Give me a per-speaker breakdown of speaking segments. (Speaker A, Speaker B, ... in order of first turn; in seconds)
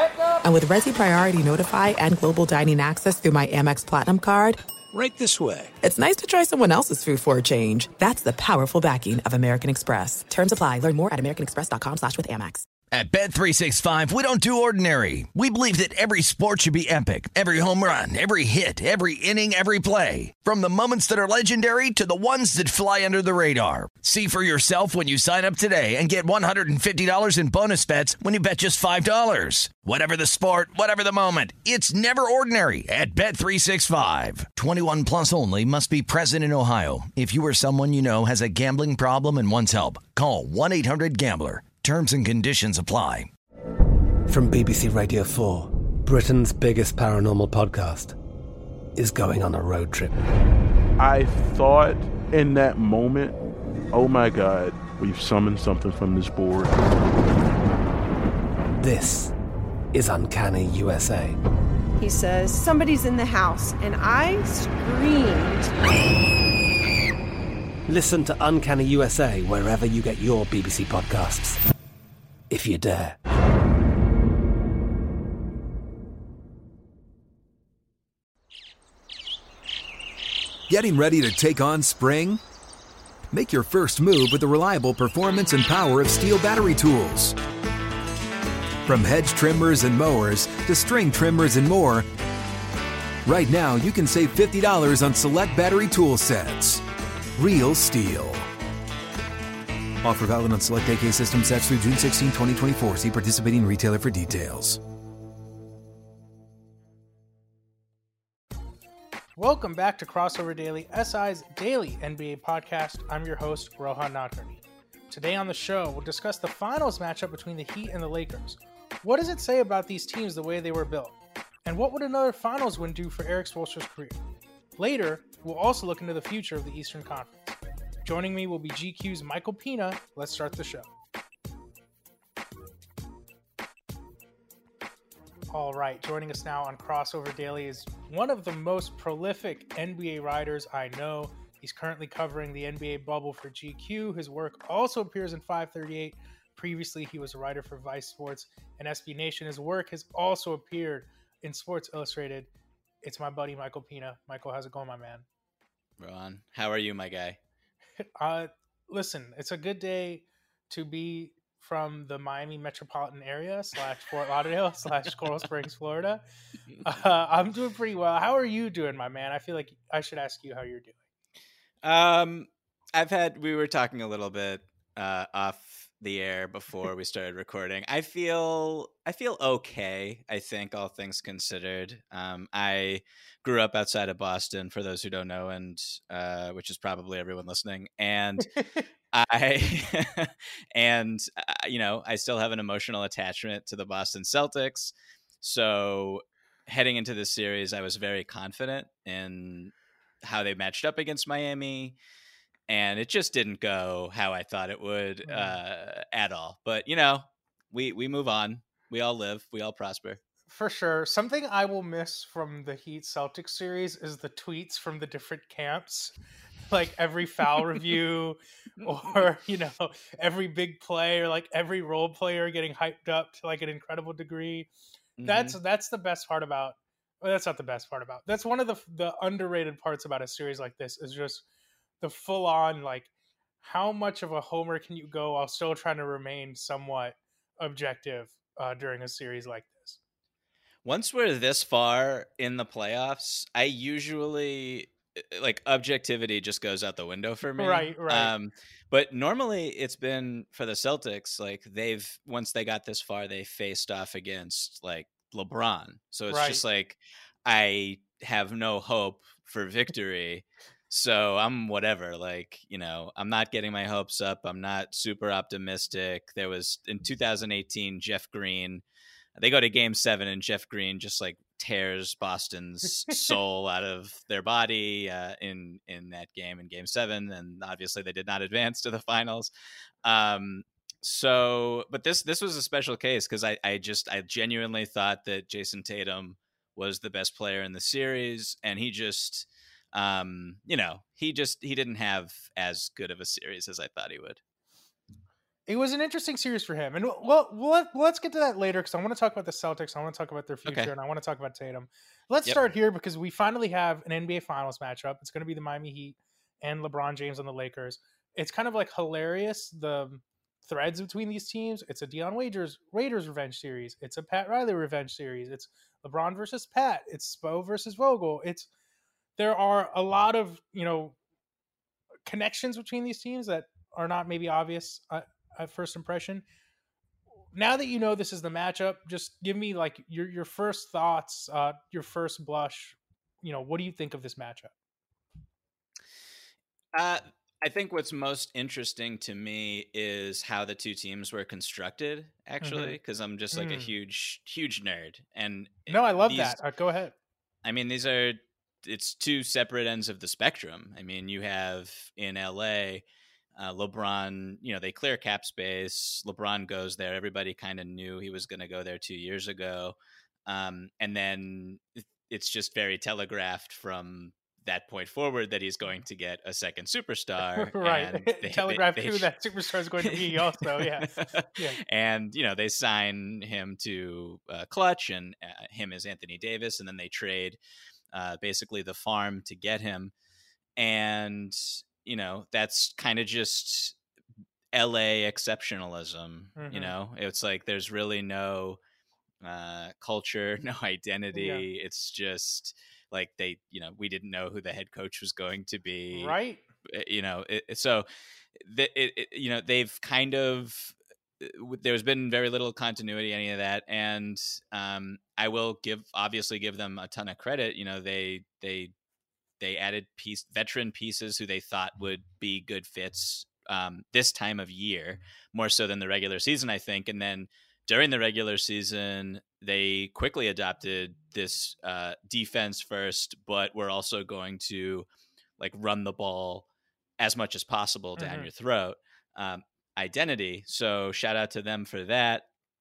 Speaker A: 0.4-4.6, 5.8-12.6
Speaker B: 4.9-5.7, 80.7-82.4, 83.3-87.3, 88.8-92.0, 93.2-96.8, 97.4-98.5, 100.0-104.8
Speaker C: 12.9-43.3
Speaker D: 44.3-48.2, 49.0-50.2, 58.8-59.3, 59.9-61.4, 67.9-71.6, 72.5-73.2
Speaker E: 51.0-53.4, 53.9-56.8
Speaker F: 62.0-65.7
Speaker G: 109.4-124.2, 124.8-130.9, 135.5-152.5, 153.0-155.2, 158.0-166.2, 166.8-170.9, 205.3-205.6, 210.5-216.1, 216.7-224.7, 225.2-231.4, 232.0-233.1, 233.6-240.0, 247.6-248.3, 256.3-256.6, 295.7-318.7, 319.4-321.1, 322.2-326.4, 327.5-334.7, 342.6-342.9, 343.5-343.9, 345.9-347.1, 367.6-371.8, 386.6-386.9, 391.3-391.6, 396.1-396.6, 428.2-428.5
Speaker H: 156.0-157.4, 171.8-188.5, 189.1-201.9, 202.7-210.2, 218.8-219.2, 225.2-225.6, 240.8-268.8, 269.4-279.5, 280.0-294.4, 300.6-300.9, 336.9-346.6, 347.6-353.0, 353.6-359.9, 360.5-369.3, 370.0-377.6, 378.1-380.1, 380.8-383.9, 384.7-388.8, 389.4-396.4, 396.9-398.1, 398.6-408.9, 409.6-425.1, 425.6-426.6, 427.2-432.4